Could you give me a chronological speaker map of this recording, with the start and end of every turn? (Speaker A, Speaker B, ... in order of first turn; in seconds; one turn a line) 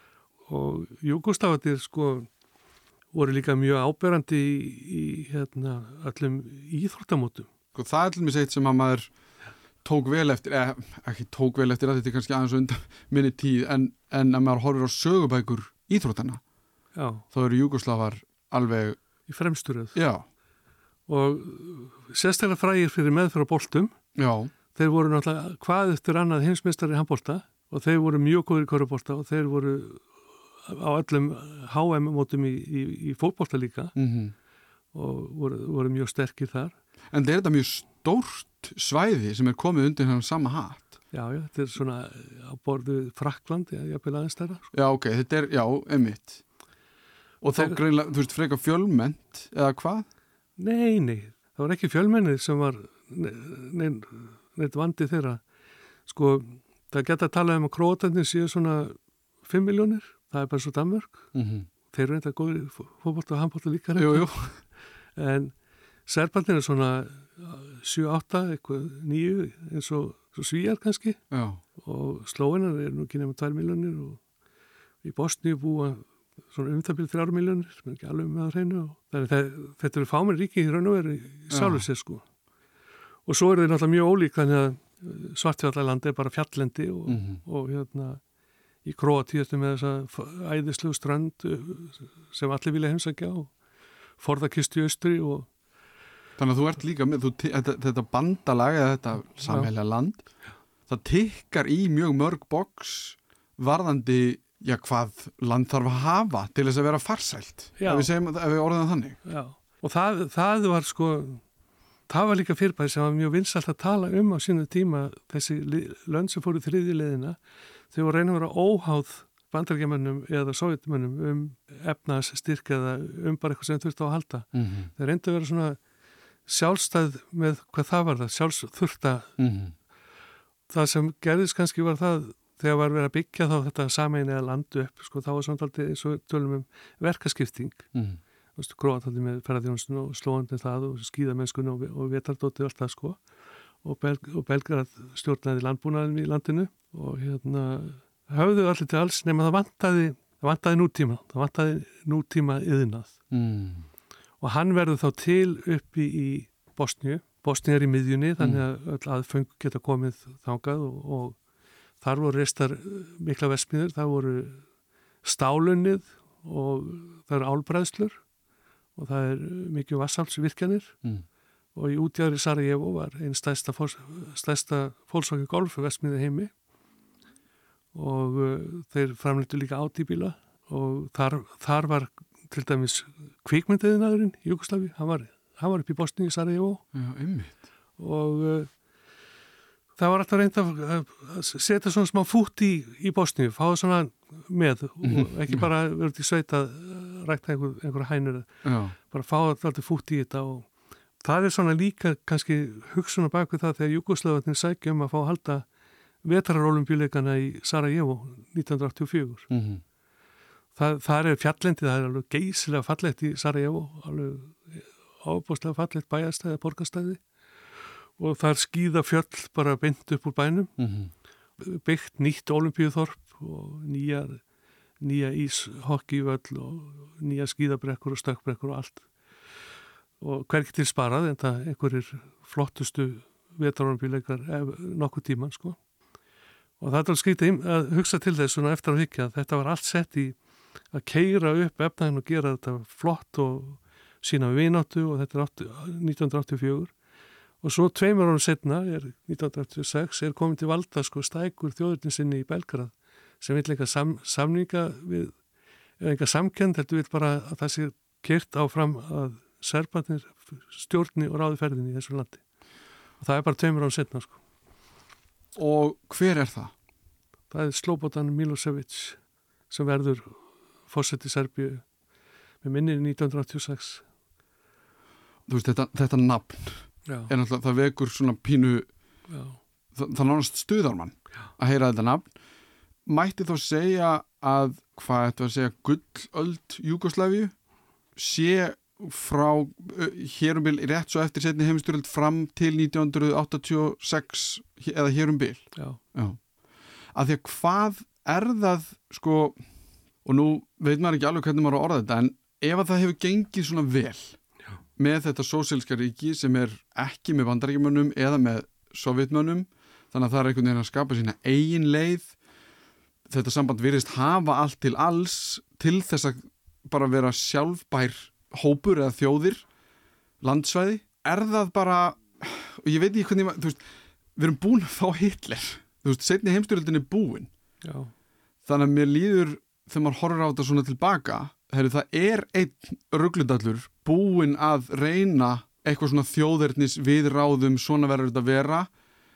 Speaker A: 0.5-2.3
Speaker A: 3.1-7.5
Speaker B: 7.7-9.1
Speaker B: 9.8-16.4
Speaker A: 16.9-17.2
Speaker B: 17.3-19.0
Speaker A: 19.3-19.9
Speaker B: 19.9-20.2
Speaker A: 21.1-23.9
Speaker B: 24.1-24.5
Speaker A: 24.7-30.1
Speaker A: 30.6-33.9
Speaker B: 34.0-34.3
Speaker A: 34.9-36.7
Speaker B: 37.1-41.0
Speaker A: 41.1-44.7
Speaker B: 44.7-46.4
Speaker B: 47.4-50.1
Speaker A: 50.6-55.4
Speaker A: 56.1-61.2
Speaker B: 61.3-61.7
Speaker A: 61.9-64.5
Speaker B: 64.0-64.5
Speaker A: 65.1-65.5
Speaker A: 66.0-71.2
Speaker B: 71.3-71.6
Speaker A: 71.8-74.2
Speaker A: 75.0-82.2
Speaker B: 81.5-81.8
Speaker A: 83.2-88.2
Speaker B: 87.1-87.4
Speaker A: 88.8-93.5
Speaker A: 94.2-95.5
Speaker B: 96.4-100.2
Speaker B: 100.9-109.2
Speaker A: 107.8-108.1
Speaker A: 109.2-111.4
Speaker A: 112.1-117.4
Speaker A: 117.9-125.8
Speaker B: 124.5-124.9
Speaker A: 126.5-129.3
Speaker B: 129.4-129.7
Speaker A: 130.7-137.9
Speaker B: 137.9-138.2
Speaker A: 138.6-143.2
Speaker A: 143.8-153.1
Speaker B: 153.3-153.8
Speaker A: 154.4-161.4
Speaker A: 162.0-164.6
Speaker A: 165.2-168.2
Speaker A: 168.9-171.0
Speaker A: 171.7-176.5
Speaker A: 177.9-186.8
Speaker B: 186.9-187.6
Speaker A: 188.0-188.7
Speaker A: 190.0-200.7
Speaker B: 195.0-195.6
Speaker B: 198.6-198.9
Speaker A: 201.2-205.7
Speaker A: 206.2-209.5
Speaker B: 209.5-209.8
Speaker A: 210.8-217.2
Speaker A: 218.2-220.7
Speaker B: 220.8-221.1
Speaker A: 221.6-224.4
Speaker A: 225.0-229.1
Speaker A: 230.2-235.8
Speaker A: 236.8-240.4
Speaker A: 240.9-246.9
Speaker A: 247.6-255.3
Speaker A: 256.0-262.4
Speaker A: 263.2-264.4
Speaker B: 265.6-266.7
Speaker A: 267.5-269.2
Speaker A: 269.7-271.8
Speaker A: 272.6-274.0
Speaker B: 275.5-278.9
Speaker A: 277.1-277.3
Speaker A: 279.3-279.6
Speaker B: 279.9-282.3
Speaker B: 283.1-287.5
Speaker B: 288.1-296.4
Speaker B: 297.1-299.6
Speaker B: 300.2-304.4
Speaker B: 305.0-312.3
Speaker B: 313.3-319.6
Speaker B: 320.4-323.8
Speaker B: 324.4-327.5
Speaker A: 327.8-328.1
Speaker B: 328.6-338.9